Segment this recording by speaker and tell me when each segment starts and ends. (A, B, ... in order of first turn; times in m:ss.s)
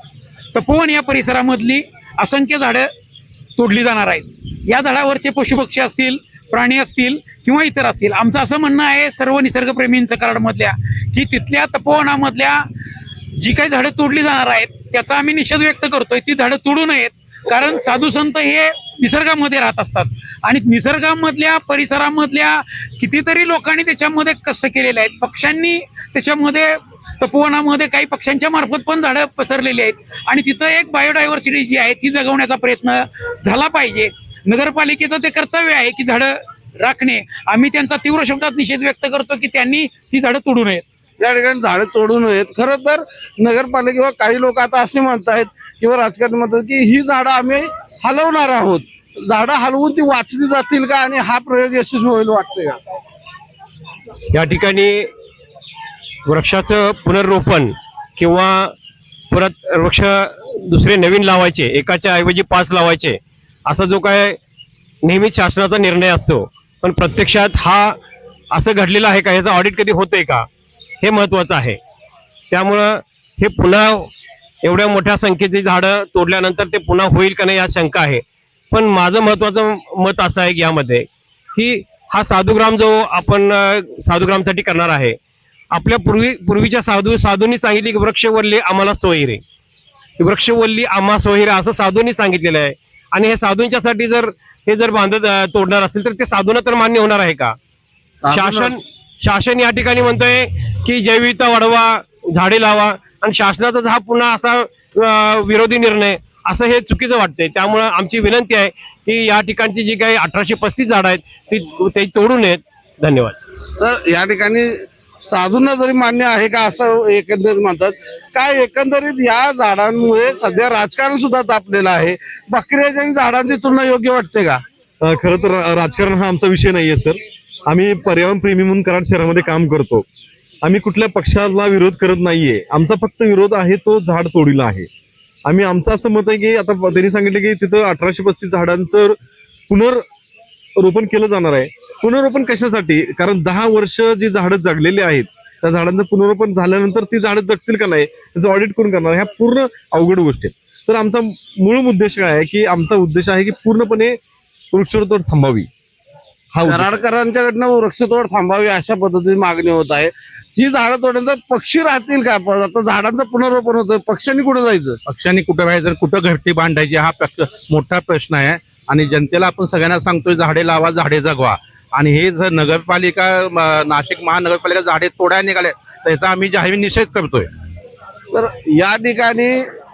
0:00.5-0:02.9 A
0:03.6-0:12.6 A
0:13.4-0:40.8 A
0:41.2-0:52.8 B
0:54.3-0:55.1 C
0:56.3-0:58.7 C
0:59.3-1:04.4 C
1:05.0-1:08.0 C
1:08.5-1:10.5 C
1:11.0-1:11.8 C
1:12.5-1:14.1 C
1:14.6-1:25.2 C
1:25.7-1:29.4 C
1:30.2-1:37.6 C
1:38.2-1:38.7 B
1:38.3-1:53.4 C
1:53.8-2:04.6 B
2:05.0-2:10.0 D
2:10.6-2:14.9 D
2:15.4-2:19.2 D
2:19.7-2:20.0 D
2:20.8-2:34.2 D
2:34.7-2:35.7 D
2:36.5-2:36.9 D
2:36.6-2:45.0 B
2:45.0-2:57.5 E
2:58.3-2:59.6 B